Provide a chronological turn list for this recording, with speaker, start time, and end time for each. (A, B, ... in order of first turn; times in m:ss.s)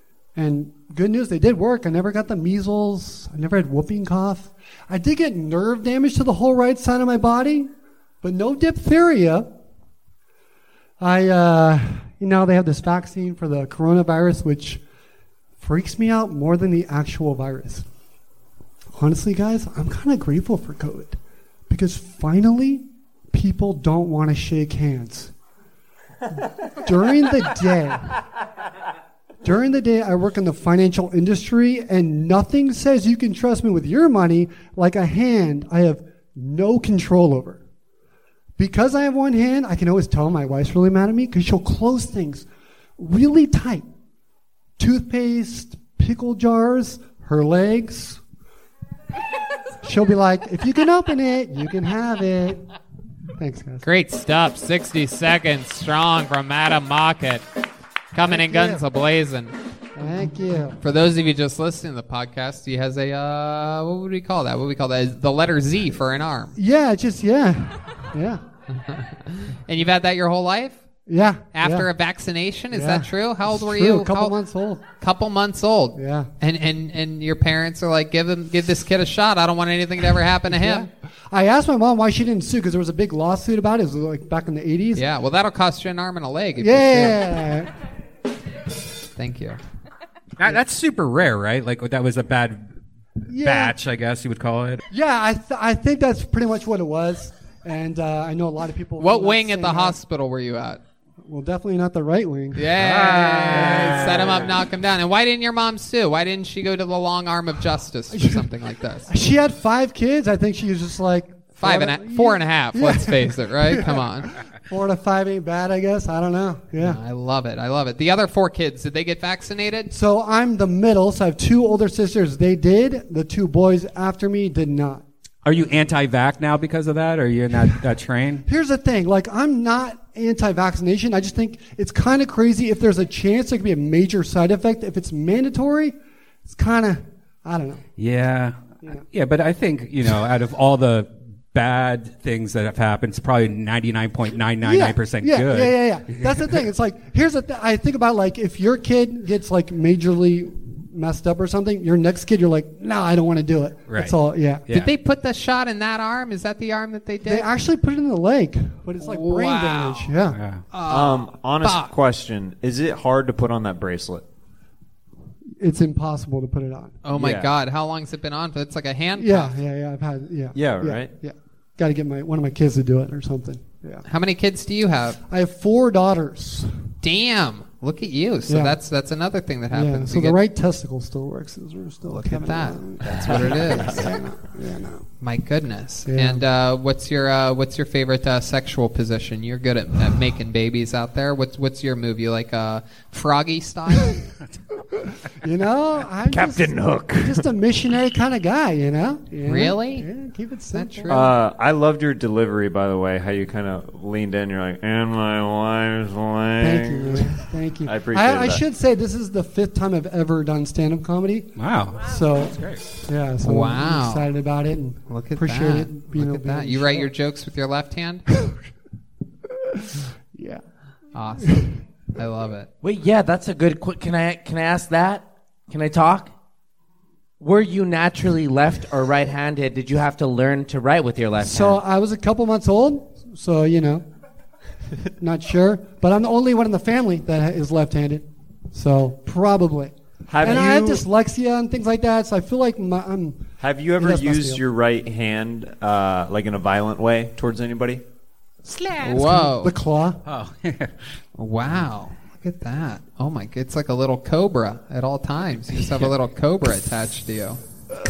0:00.4-0:07.7 A
0:08.2-0:09.5 A
0:11.0-0:14.8 A
0:15.6-0:17.9 A
0:18.9-0:21.2 A
0:21.7-0:25.3 A
0:26.8-0:28.2 A
0:29.4-0:37.6 A
0:38.6-0:42.5 A
0:43.0-0:43.9 A
0:44.8-0:48.2 A
0:49.8-0:52.6 A
0:53.4-0:53.8 A
0:53.8-0:57.4 B
0:58.1-0:59.6 B
0:58.3-0:58.8 A
1:00.0-1:00.8 A
1:00.8-1:06.6 B
1:06.6-1:08.4 A
1:08.9-1:10.8 B
1:11.1-1:11.9 A
1:11.5-1:14.4 B
1:12.7-1:14.8 A
1:14.9-1:20.9 B
1:16.0-1:16.3 A
1:20.5-1:25.1 A
1:25.0-1:27.2 B
1:26.6-1:27.7 A
1:29.2-1:29.6 B
1:30.4-1:32.7 C
1:33.3-1:33.8 A
1:33.3-1:34.8 C
1:34.9-1:40.0 A
1:39.0-1:40.8 B
1:41.2-1:42.7 A
1:42.6-1:49.1 B
1:43.5-1:44.0 A
1:48.1-1:48.5 A
1:49.1-1:54.0 A
1:51.6-1:54.3 B
1:54.7-1:57.0 A
1:56.8-1:59.9 B
1:59.9-2:05.0 A
2:05.4-2:08.5 C
2:08.5-2:16.0 A
2:16.5-2:17.8 A
2:18.0-2:26.6 C
2:24.6-2:34.7 A
2:33.9-2:34.2 C
2:34.7-2:37.5 B
2:37.2-2:40.4 A
2:39.0-2:40.1 B
2:40.3-2:40.6 C
2:40.7-2:41.9 B
2:40.9-2:44.2 D
2:45.6-2:47.0 A
2:47.0-2:49.5 B
2:47.2-2:47.5 D
2:49.2-2:54.0 A
2:50.5-2:51.1 D
2:54.0-2:55.2 B
2:55.3-2:56.7 A
2:57.0-3:00.4 B
2:58.5-2:58.8 A
2:59.7-3:05.1 A
3:02.2-3:04.1 B
3:03.1-3:03.9 D
3:05.2-3:14.2 B
3:06.1-3:06.4 A
3:15.4-3:21.2 A
3:16.3-3:17.3 D
3:19.5-3:20.1 B
3:20.7-3:21.3 B
3:21.1-3:28.6 D
3:26.6-3:37.1 A
3:31.6-3:32.8 C
3:33.4-3:34.3 B
3:35.1-3:38.3 B
3:40.3-3:40.6 A
3:41.2-3:42.7 B
3:42.8-3:46.3 E
3:47.4-3:51.8 E
3:51.4-3:54.0 A
3:55.2-4:04.6 A
4:00.3-4:01.1 D
4:03.6-4:08.0 D
4:08.7-4:09.0 C
4:09.0-4:09.8 B
4:09.1-4:10.2 A
4:10.3-4:11.0 C
4:11.4-4:17.6 B